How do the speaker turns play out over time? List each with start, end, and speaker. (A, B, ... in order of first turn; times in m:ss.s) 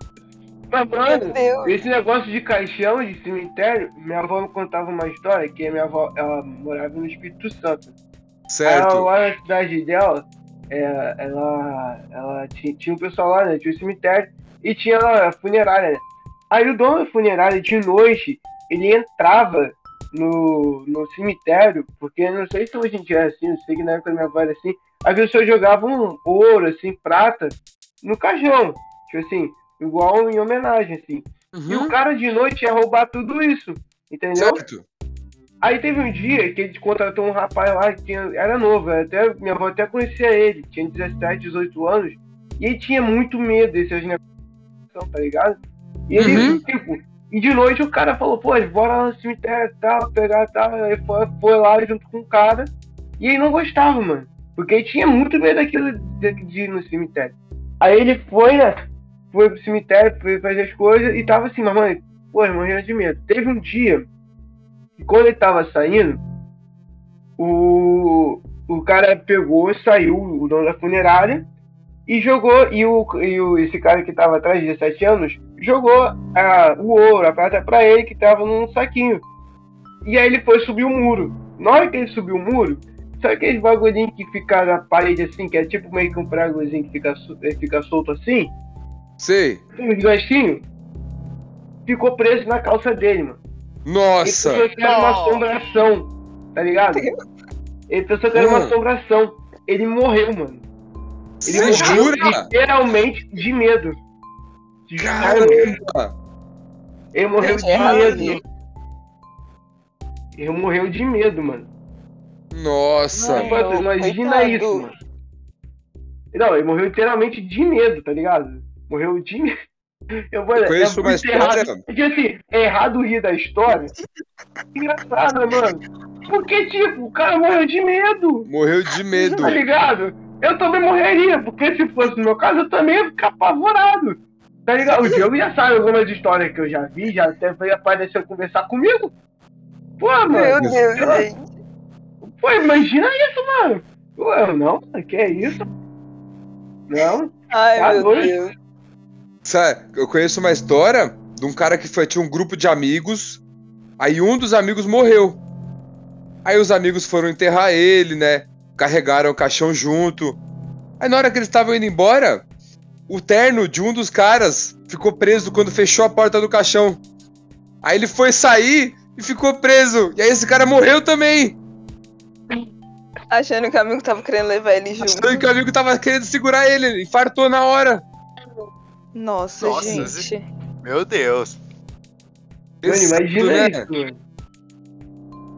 0:00.7-0:07.9 A
0:01.1-0:01.8 B
0:08.5-0:09.1 C
0:08.6-0:34.6 A
0:31.5-0:31.9 C
0:34.4-0:34.8 C
0:35.6-0:44.2 A
0:44.9-1:04.1 A
0:46.2-0:46.6 C
1:05.0-1:06.2 A
1:07.4-1:11.5 A
1:12.1-1:19.2 A
1:20.0-1:28.5 A
1:29.2-1:29.6 C
1:29.7-1:30.6 A
1:31.9-1:33.4 A
1:33.8-1:34.7 C
1:34.2-1:37.1 A
1:34.8-1:35.4 D
1:37.9-1:40.6 A
1:38.3-1:38.8 C
1:41.4-1:42.5 C
1:41.4-1:44.0 A
1:41.5-1:42.3 B
1:44.9-1:45.7 A
1:45.0-1:46.1 C
1:47.1-1:48.4 A
1:47.4-1:48.4 B
1:47.8-1:48.3 D
1:50.4-1:51.7 A
1:52.5-1:53.5 C
1:53.2-1:54.9 B
1:53.2-1:55.0 A
1:56.3-1:59.5 A
2:00.3-2:03.9 A
2:00.5-2:01.8 C
2:04.8-2:08.5 A
2:08.5-2:09.6 C
2:09.1-2:09.6 B
2:09.4-2:19.1 A
2:20.0-2:21.3 A
2:20.3-2:21.5 B
2:20.6-2:20.9 C
2:22.2-2:25.7 A
2:26.9-2:28.4 A
2:27.5-2:28.5 B
2:29.4-2:33.4 C
2:34.0-2:35.4 C
2:36.4-2:40.4 C
2:41.0-2:42.4 C
2:43.1-2:47.0 C
2:47.8-2:51.6 C
2:53.3-2:55.4 B
2:55.0-2:58.0 C
2:59.1-3:00.4 B
2:59.6-3:00.3 D
3:00.8-3:01.6 D
3:02.8-3:03.9 C
3:02.8-3:04.2 A